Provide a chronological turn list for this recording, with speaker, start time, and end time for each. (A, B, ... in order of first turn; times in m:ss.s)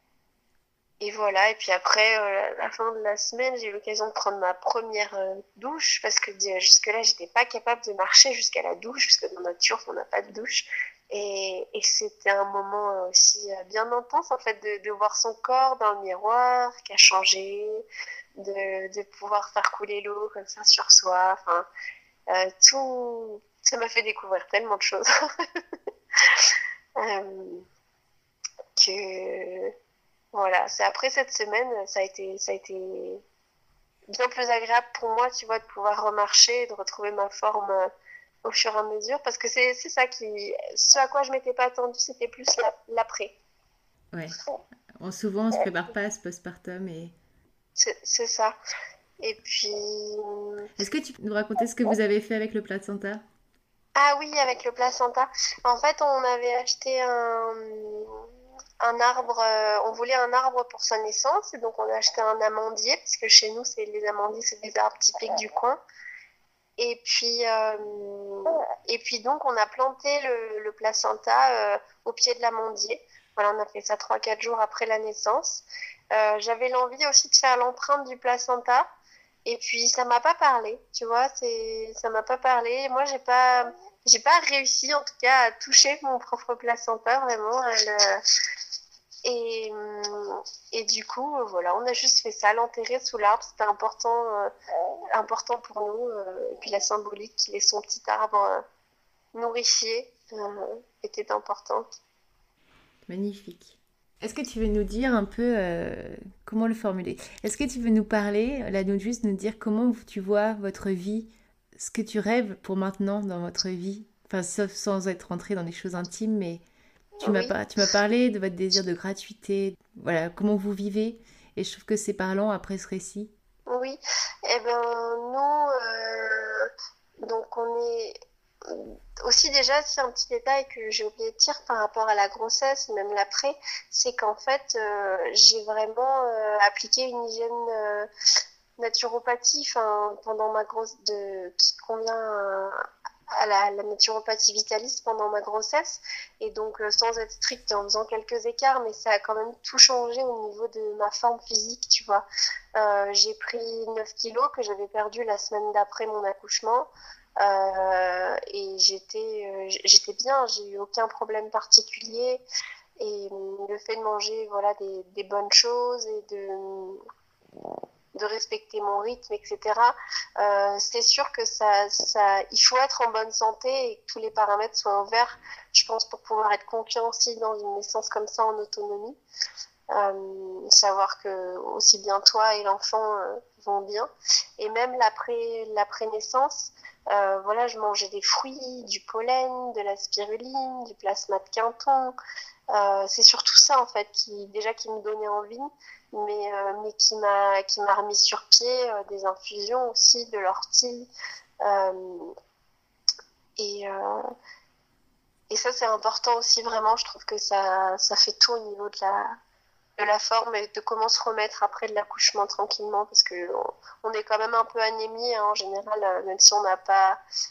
0:01.0-0:17.8 A
0:18.4-0:21.7 A
0:22.3-0:25.1 A
0:27.0-0:27.7 A
0:28.8-0:29.7 A
0:30.3-0:33.2 A
0:34.1-0:37.9 A
0:38.4-0:43.3 A
0:44.1-0:44.4 B
0:45.0-0:47.2 B
0:47.8-0:48.6 A
0:49.2-0:50.7 A
0:50.8-0:53.2 B
0:54.0-0:58.2 A
0:58.8-1:05.8 A
1:06.8-1:18.9 A
1:19.5-1:28.2 A
1:29.2-1:34.5 A
1:35.1-1:38.6 A
1:39.4-1:41.9 A
1:43.1-1:56.6 B
1:57.2-1:57.5 A
1:57.2-2:03.3 B
2:03.7-2:06.7 A
2:07.2-2:18.1 A
2:18.8-2:22.8 A
2:23.4-2:32.2 A
2:32.8-2:42.4 A
2:43.0-2:47.0 A
2:48.1-2:59.2 A
2:59.9-3:12.2 A
3:12.7-3:21.1 A
3:21.6-3:22.3 A
3:23.6-3:24.3 A
3:25.5-3:29.4 A
3:30.0-3:37.2 A